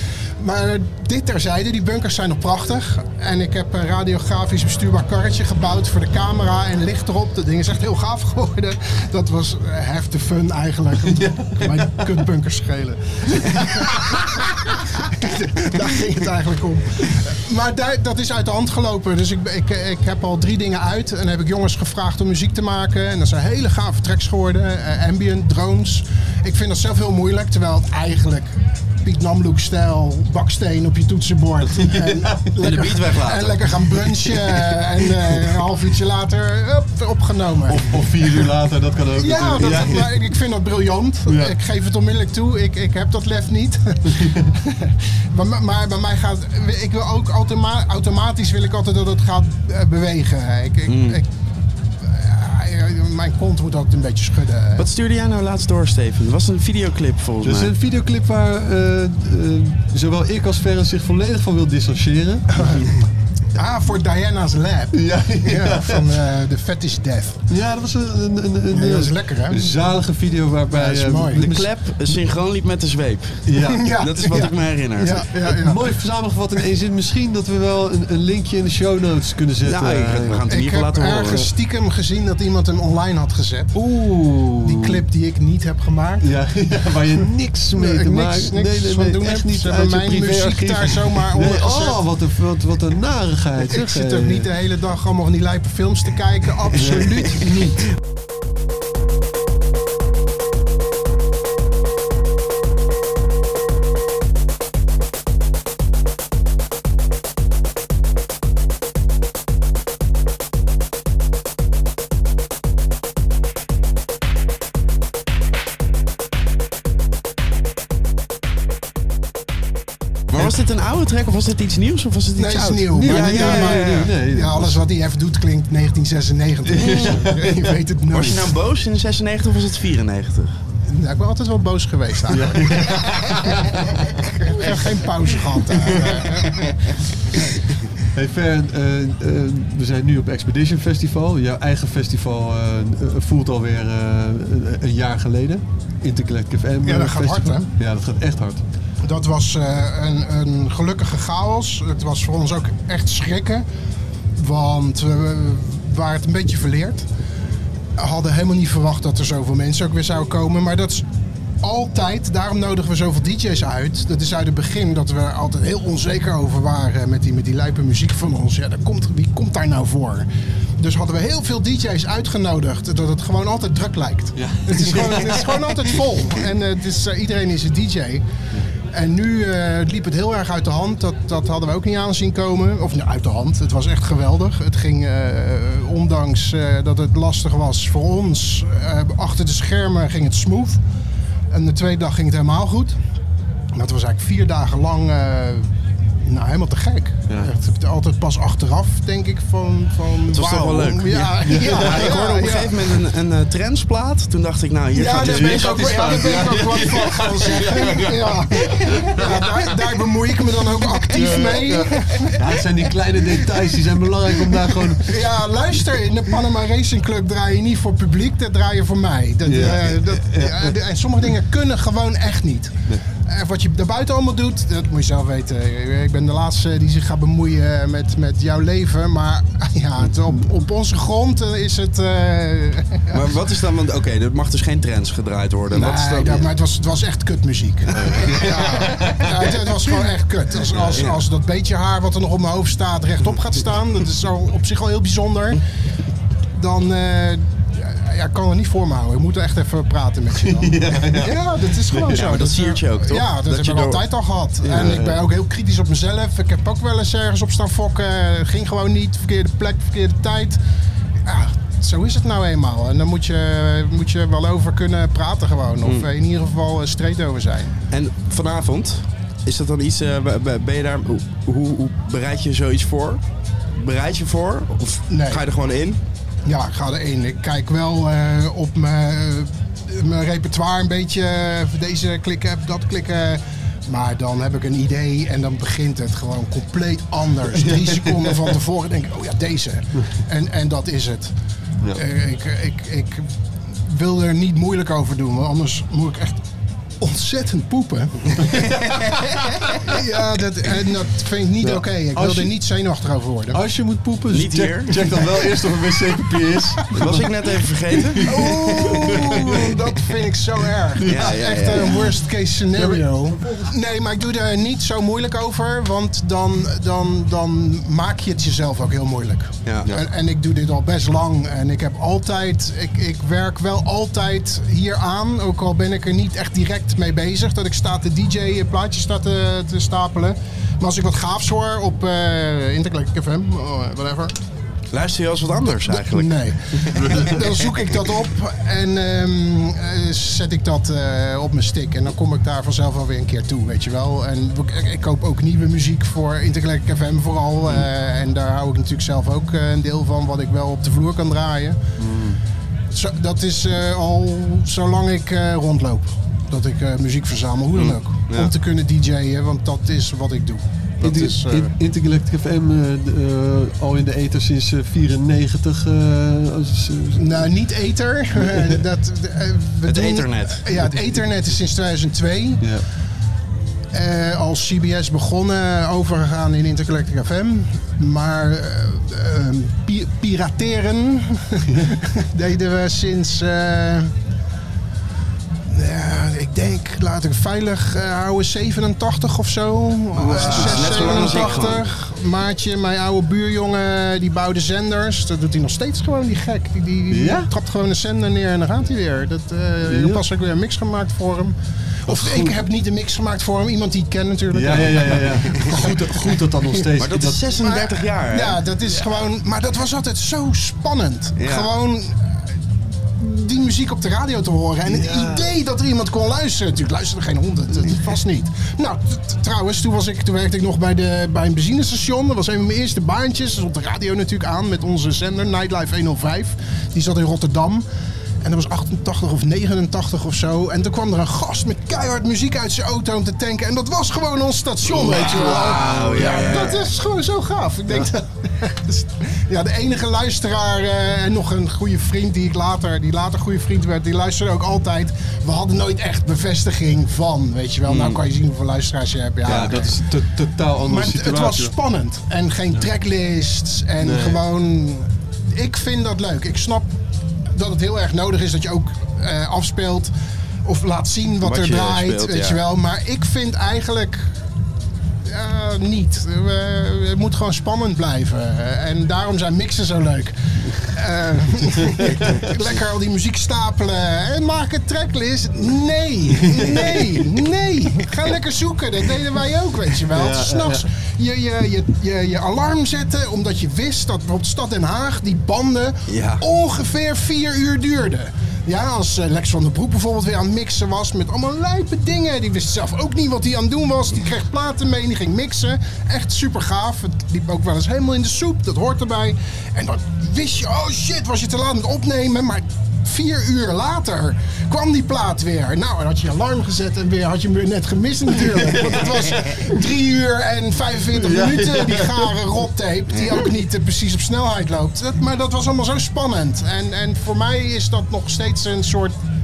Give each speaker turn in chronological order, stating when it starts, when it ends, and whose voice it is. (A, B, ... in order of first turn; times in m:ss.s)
0:00.4-0:14.3 A
0:11.1-0:12.0 B
0:15.0-0:38.5 A
0:31.7-0:32.5 B
0:32.6-0:33.7 C
0:34.4-0:35.4 B
0:37.7-0:40.3 B
0:39.2-0:51.3 A
0:41.3-0:41.6 B
0:44.2-0:44.5 B
0:50.9-0:51.2 C
0:52.0-0:54.9 A
0:54.8-0:57.7 C
0:57.4-1:02.8 B
1:02.6-1:02.9 A
1:03.6-1:07.4 A
1:04.9-1:06.2 B
1:07.5-1:11.7 B
1:08.7-1:09.8 A
1:10.7-1:11.6 A
1:11.4-1:15.3 C
1:13.5-1:14.5 B
1:13.7-1:15.9 A
1:15.4-1:20.4 B
1:19.6-1:21.5 C
1:20.5-1:23.8 A
1:23.8-1:25.0 B
1:24.6-1:26.3 A
1:26.2-1:34.5 B
1:27.8-1:32.0 A
1:33.7-1:37.8 A
1:36.8-1:37.3 B
2:00.3-2:04.2 C
2:02.4-2:08.6 A
2:02.9-2:04.8 B
2:06.7-2:07.7 B
2:06.8-2:07.3 C
2:08.1-2:10.6 C
2:10.9-2:13.5 A
2:12.3-2:14.0 B
2:14.4-2:16.8 A
2:15.8-2:16.4 B
2:18.1-2:28.6 B
2:26.8-2:27.7 A
2:29.0-2:33.7 A
2:34.4-2:37.1 A
2:38.0-2:41.0 A
2:41.6-2:50.3 A
2:50.8-2:58.2 A
2:54.4-2:55.8 B
2:58.9-3:10.8 A
3:11.5-3:13.0 A
3:13.8-3:15.7 A
3:16.2-3:22.9 A
3:20.3-3:27.9 C
3:21.4-3:22.2 B
3:24.9-3:32.6 A
3:25.2-3:29.7 B
3:31.1-3:35.2 B
3:34.5-3:53.4 A
3:39.4-3:40.7 B
3:53.1-3:56.5 C
3:55.7-4:05.6 A
3:57.9-3:59.3 B
3:58.0-3:59.3 C
4:00.7-4:01.0 B
4:00.9-4:01.2 C
4:06.6-4:20.6 A
4:10.4-4:12.3 B
4:12.1-4:14.0 C
4:14.6-4:15.2 B
4:21.3-4:27.8 A
4:25.8-4:26.1 C
4:27.9-4:36.0 C
4:35.1-4:35.5 A
4:36.5-4:51.3 A
4:47.6-4:48.5 B
4:51.9-4:56.4 A
4:57.0-4:58.6 A
4:59.8-5:03.6 A
5:01.6-5:02.5 B
5:03.5-5:07.3 B
5:04.3-5:05.1 C
5:07.0-5:09.7 C
5:07.9-5:08.4 B
5:08.2-5:34.4 A
5:09.1-5:09.6 B
5:11.0-5:11.8 B
5:11.0-5:12.2 C
5:12.7-5:13.7 B
5:19.7-5:19.9 C
5:34.9-5:37.6 C
5:35.9-5:51.8 A
5:37.0-5:37.3 B
5:52.0-5:52.4 B
5:52.9-6:01.7 A
5:57.7-5:58.5 C
6:01.0-6:07.5 B
6:07.2-6:12.7 A
6:08.4-6:08.8 B
6:09.9-6:10.6 C
6:13.9-6:24.1 A
6:21.7-6:22.0 B
6:25.7-6:46.9 A
6:30.2-6:31.9 C
6:30.2-6:31.8 B
6:37.1-6:37.5 B
6:39.9-6:40.2 B
6:42.1-6:42.5 B
6:44.5-6:47.5 B
6:47.0-6:48.6 C
6:47.6-6:52.2 A
6:51.4-6:51.7 C
6:53.2-7:07.8 A
6:54.9-6:55.4 C
7:08.4-7:30.0 A
7:14.8-7:16.9 C
7:15.4-7:16.5 B
7:27.9-7:28.2 C
7:29.4-7:31.7 B
7:29.5-7:29.8 C
7:30.8-7:36.9 A
7:34.0-7:34.4 B
7:37.5-7:40.1 A
7:40.6-7:44.3 A
7:41.4-7:42.6 C
7:45.3-8:39.2 A
7:52.2-7:52.5 B
8:00.1-8:00.9 B
8:06.1-8:06.4 C
8:28.3-8:29.8 B
8:31.1-8:32.3 B
8:33.1-8:33.4 C